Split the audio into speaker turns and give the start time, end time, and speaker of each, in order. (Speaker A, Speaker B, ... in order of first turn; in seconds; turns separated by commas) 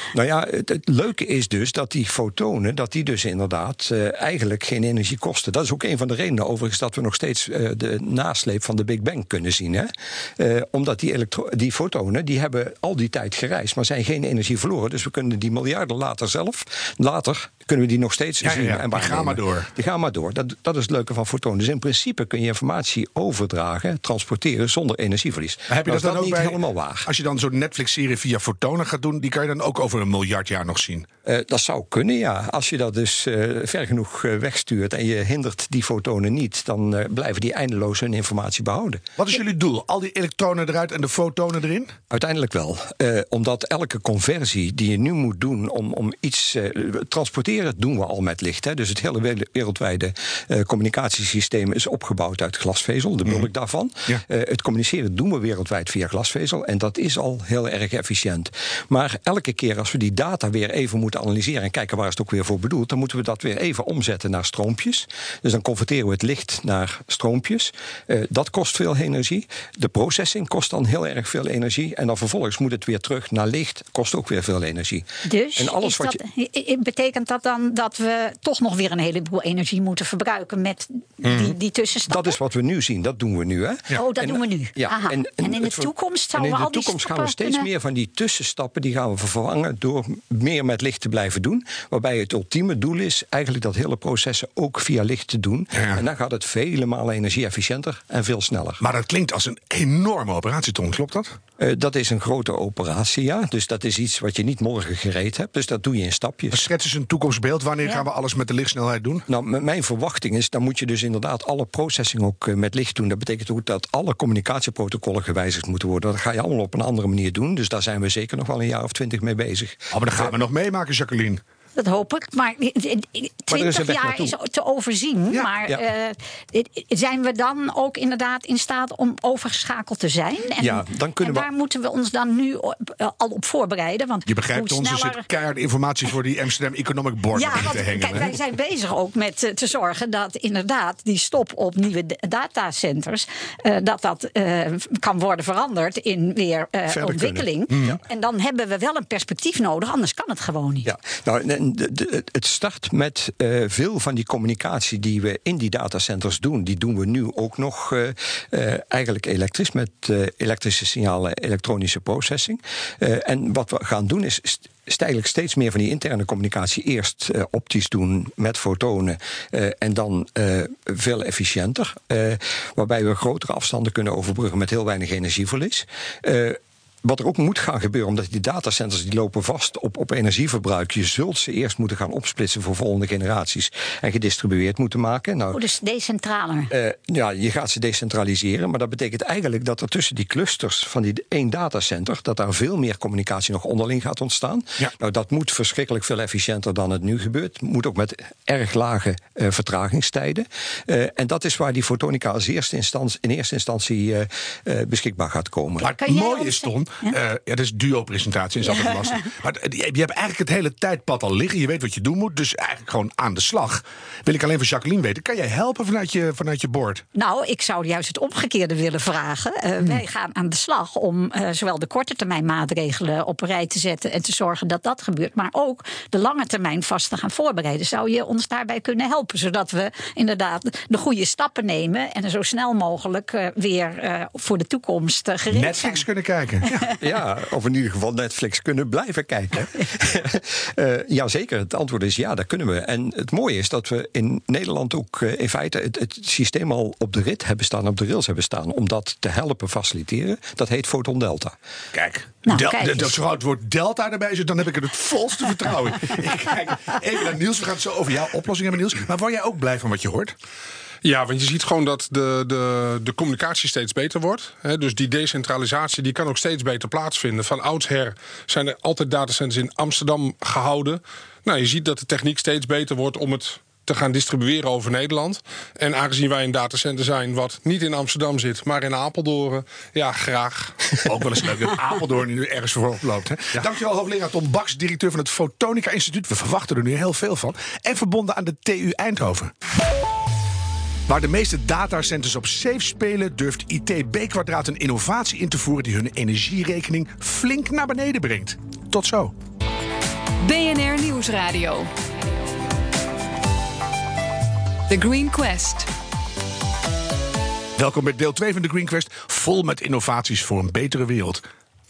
Speaker A: 0.1-27.1, Speaker B: 18.4-19.7, Speaker B: 25.7-31.1, Speaker A: 31.2-39.0, Speaker B: 39.2-41.9, Speaker A: 42.1-76.2, Speaker C: 75.2-82.4, Speaker B: 81.2-81.5, Speaker A: 82.1-98.8, Speaker C: 83.9-87.7, Speaker B: 95.8-96.0, Speaker B: 98.8-101.3, Speaker A: 101.6-106.6, Speaker B: 106.5-109.2, Speaker A: 109.3-120.3, Speaker B: 119.9-121.4, Speaker C: 121.8-135.2, Speaker A: 123.5-124.3, Speaker A: 130.6-131.5, Speaker B: 134.3-138.3, Speaker C: 137.3-150.9, Speaker A: 146.9-148.0, Speaker B: 147.7-148.0, Speaker A: 150.8-185.6, Speaker C: 185.5-186.7, Speaker A: 186.7-205.9, Speaker C: 205.8-207.1, Speaker B: 205.8-217.0, Speaker C: 217.1-236.0, Speaker B: 235.5-236.9, Speaker A: 237.0-251.5, Speaker B: 251.9-260.3, Speaker C: 252.4-253.2, Speaker D: 261.0-281.0, Speaker B: 281.0-289.5, Speaker B: 291.1-299.3, Speaker E: 300.4-301.9, Speaker E: 304.9-305.9, Speaker B: 307.8-311.4